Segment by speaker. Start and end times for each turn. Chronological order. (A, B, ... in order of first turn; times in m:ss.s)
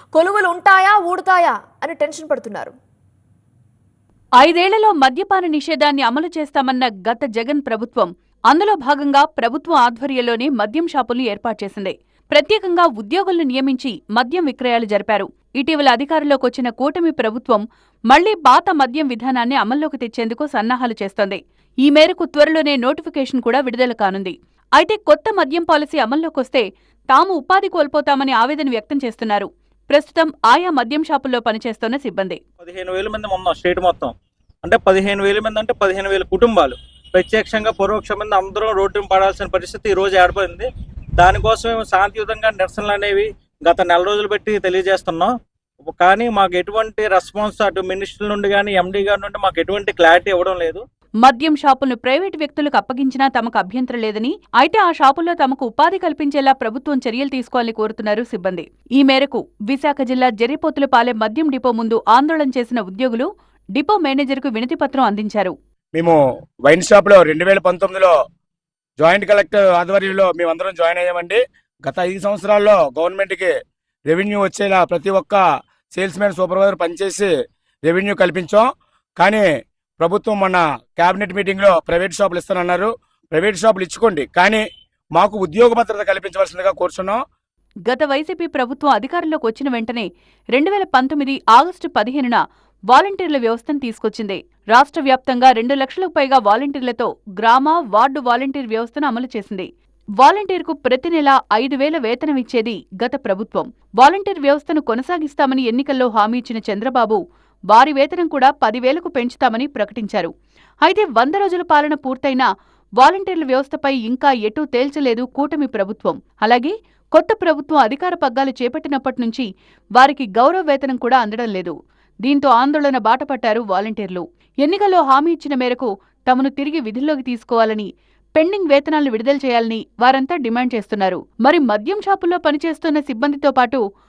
0:00.2-0:02.7 A
0:04.4-0:32.4 B
0:32.6-0:34.1 C
0:34.6-0:40.7 C
0:41.2-0:45.3 C
0:45.8-0:50.8 C
0:51.2-1:05.5 B
1:06.0-1:08.1 D
1:09.0-1:13.5 D
1:14.1-1:17.3 D
1:17.9-1:19.5 D
1:20.0-1:24.6 D
1:25.2-1:27.2 D
1:27.9-1:39.7 B
1:40.2-1:47.2 B
1:47.7-1:50.3 B
1:50.8-1:52.5 B
1:53.0-1:59.5 B
2:00.0-2:13.8 B